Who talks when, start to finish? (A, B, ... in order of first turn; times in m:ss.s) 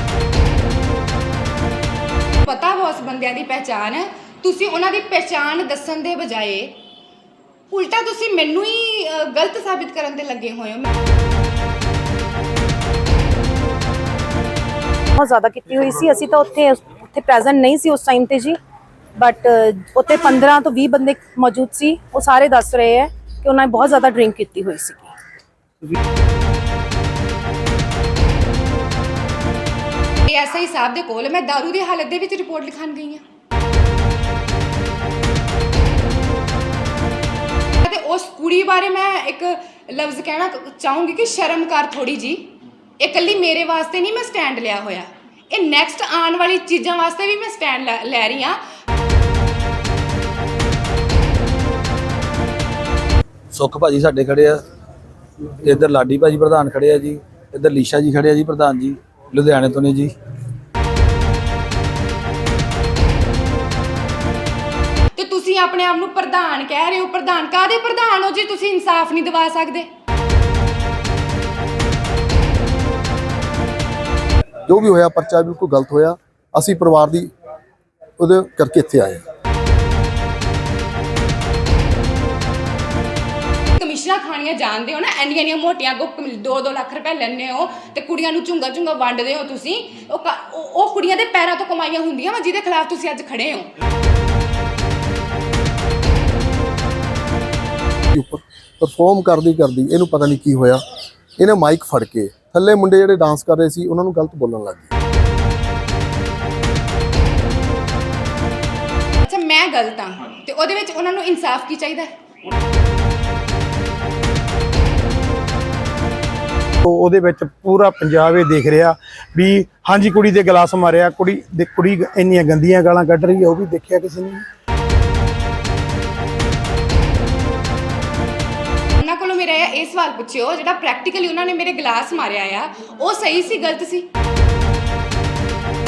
0:02.4-0:06.8 A
0:07.7-0:10.9 A
0:15.2-0:18.6 B
0:19.2-0:25.1 B
0:30.2-0:33.2 A
0:37.8-0:48.6 A
0:53.5-0:54.6 C
0:55.6-1:00.1 C
1:05.2-1:09.9 A
1:14.7-1:17.3 D
1:18.2-1:19.2 D
1:23.8-1:33.7 A
1:38.1-1:40.8 D
1:41.4-1:44.9 D
1:49.2-1:52.1 A
1:56.8-2:04.4 E
2:09.0-2:14.1 A